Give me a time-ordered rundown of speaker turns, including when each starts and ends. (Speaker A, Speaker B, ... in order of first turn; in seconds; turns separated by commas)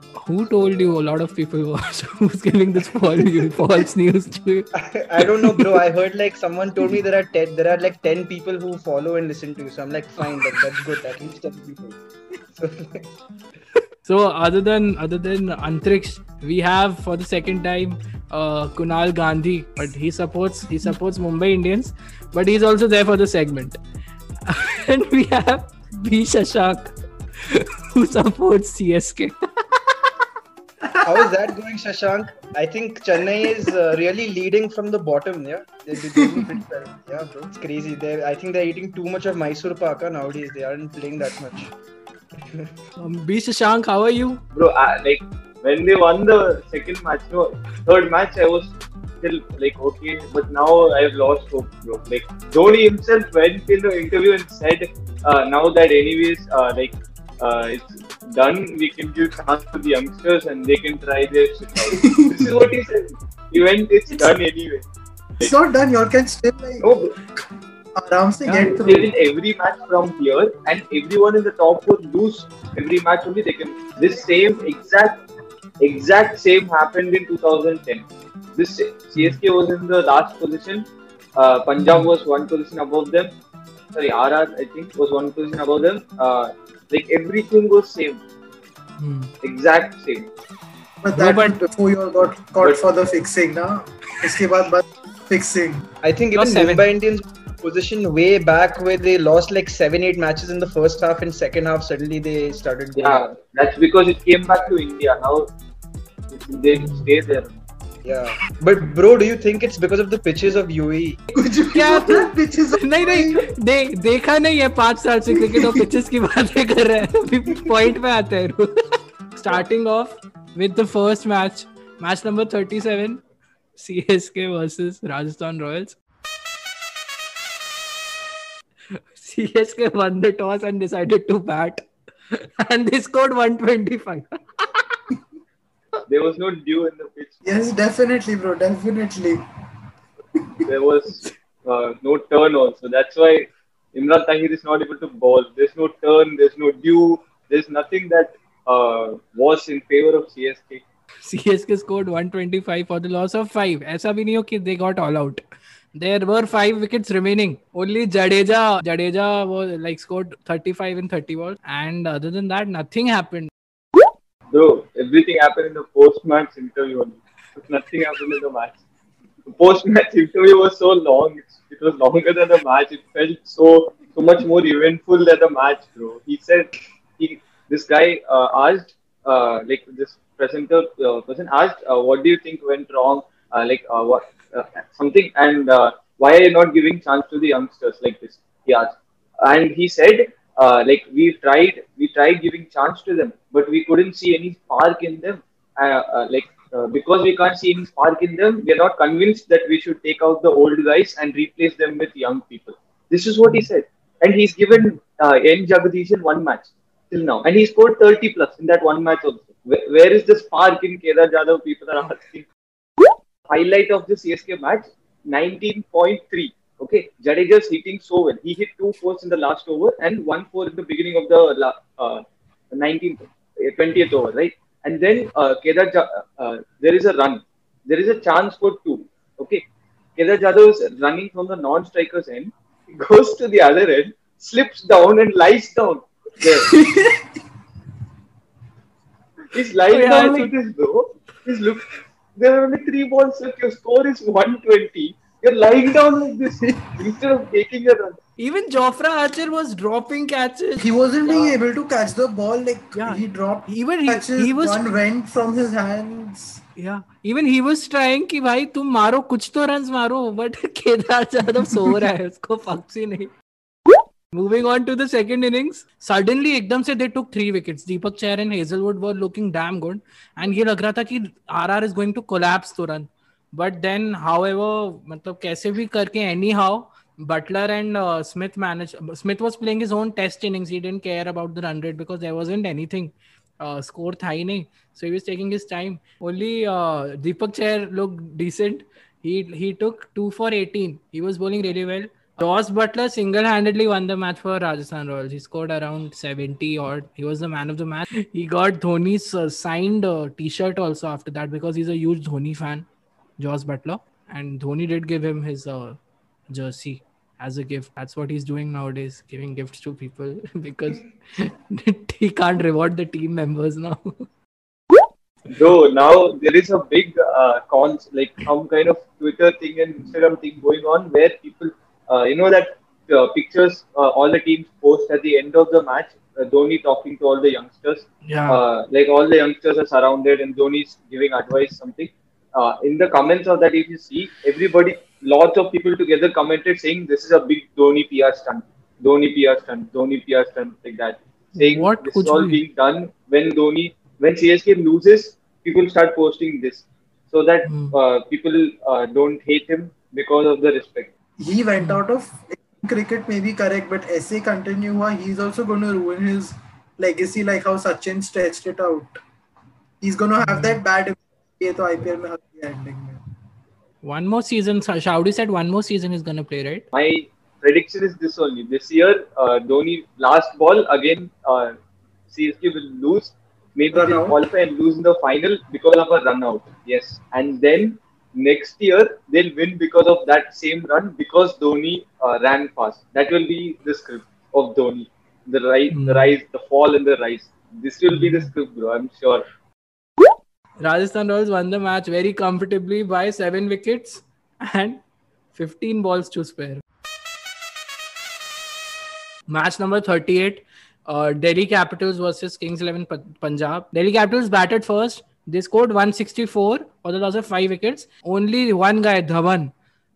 Speaker A: 0.2-4.7, Speaker B: 4.8-13.1, Speaker A: 5.4-5.6, Speaker A: 14.0-23.8, Speaker A: 24.4-29.3, Speaker B: 31.0-41.7, Speaker B: 42.4-42.7, Speaker A: 43.0-44.4, Speaker C: 44.5-64.8, Speaker D: 61.9-62.3, Speaker D: 65.4-66.9, Speaker C: 66.8-67.1, Speaker D: 68.0-69.1, Speaker C: 68.5-75.2, Speaker C: 75.8-83.3, Speaker A: 81.8-82.1, Speaker C: 83.9-88.2, Speaker A: 89.0-89.3, Speaker C: 89.4-90.3, Speaker D: 91.0-95.9, Speaker A: 91.1-91.6, Speaker B: 96.0-103.2, Speaker A: 96.3-96.8, Speaker C: 103.0-105.5, Speaker C: 106.3-107.5, Speaker A: 106.8-107.1, Speaker B: 108.0-111.2, Speaker D: 111.3-113.4, Speaker A: 111.7-118.7, Speaker D: 115.5-115.8, Speaker A: 119.3-123.2, Speaker A: 123.8-126.0, Speaker A: 129.1-134.4, Speaker C: 136.1-137.4, Speaker D: 137.4-139.4, Speaker C: 140.7-150.8, Speaker A: 151.2-155.4, Speaker A: 155.9-163.5, Speaker C: 164.5-168.8, Speaker C: 169.5-212.5, Speaker C: 213.5-229.7, Speaker C: 230.2-236.7, Speaker D: 236.7-237.2, Speaker C: 239.5-248.2, Speaker A: 239.9-240.5, Speaker A: 248.4-250.9, Speaker D: 250.8-256.6, Speaker C: 251.3-251.6, Speaker A: 253.0-254.8, Speaker A: 256.8-263.3, Speaker A: 264.3-302.9, Speaker A: 303.4-306.0, Speaker A: 306.5-314.2, Speaker C: 315.5-351.1, Speaker A: 328.3-328.6, Speaker A: 341.6-342.6, Speaker A: 347.6-347.9, Speaker D: 351.4-359.2, Speaker A: 351.8-352.0, Speaker D: 360.0-363.2, Speaker A: 360.4-360.8, Speaker A: 364.0-366.8, Speaker C: 366.9-371.8, Speaker C: 372.3-389.4, Speaker D: 373.9-374.4, Speaker A: 385.9-386.3, Speaker A: 388.1-388.5, Speaker A: 390.8-395.0, Speaker A: 395.5-396.8, Speaker A: 399.5-409.7